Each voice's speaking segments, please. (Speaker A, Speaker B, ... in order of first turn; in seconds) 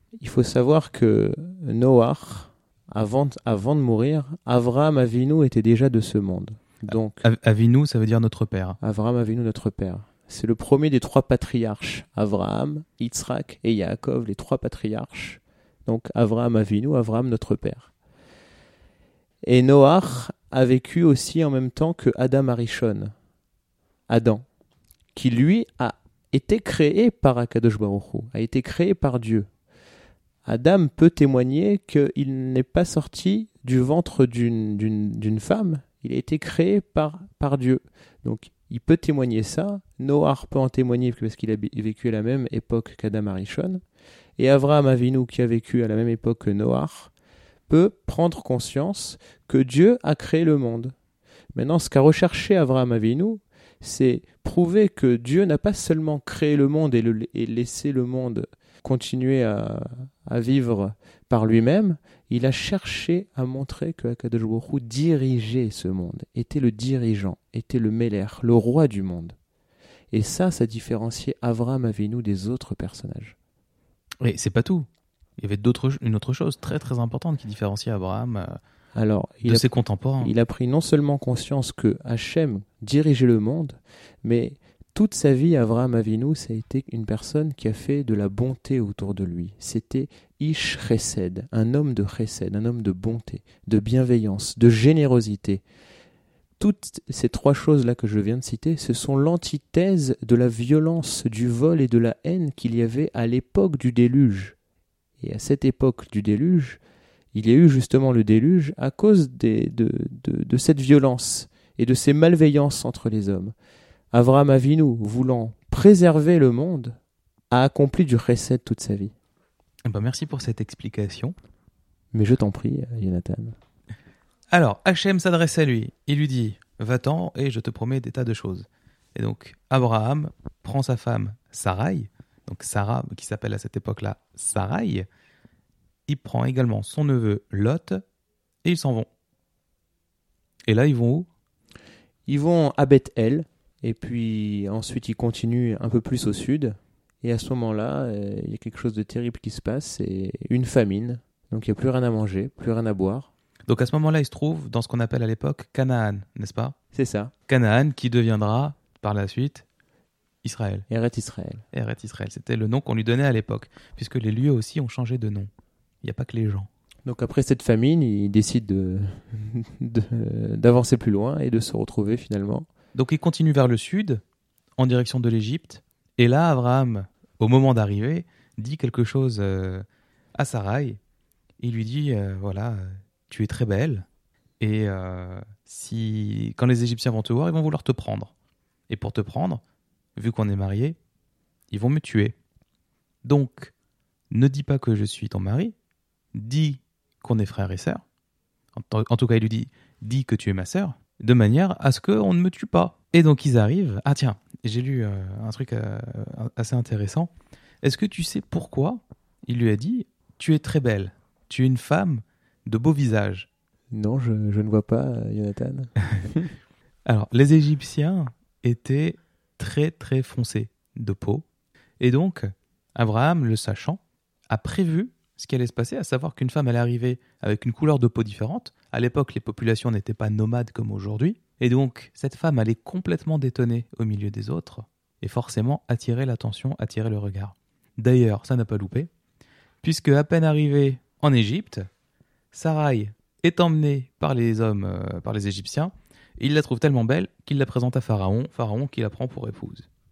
Speaker A: 0.2-7.3, 8.8-17.9, 19.4-23.1, 24.1-24.4, 25.1-29.5, 30.4-43.8, 44.4-47.1, 47.7-50.9, 51.5-69.4, 70.1-73.3, 79.0-95.6, 96.6-104.6, 105.2-106.8, 107.3-113.5, 114.1-117.0, 117.5-119.1, 122.1-123.6, 142.3-153.3, 156.9-157.3, 160.9-161.6, 167.1-172.7, 213.9-216.5
Speaker B: 6.9-8.8, 74.2-74.9, 75.4-78.6, 79.4-80.3, 119.9-121.3, 124.5-135.1, 136.1-138.0, 138.6-139.1, 140.7-141.3, 153.7-156.8, 157.5-159.7, 160.4-160.9, 161.7-165.5, 166.0-166.7, 172.9-174.2, 174.8-179.8, 180.4-181.0, 181.6-184.1, 184.6-188.3, 188.9-189.6, 190.2-191.0, 191.7-192.4, 193.2-193.7, 194.3-195.8, 196.3-198.0, 198.8-207.3, 207.8-213.5, 217.1-221.4, 222.0-239.1, 239.8-241.9, 242.5-249.9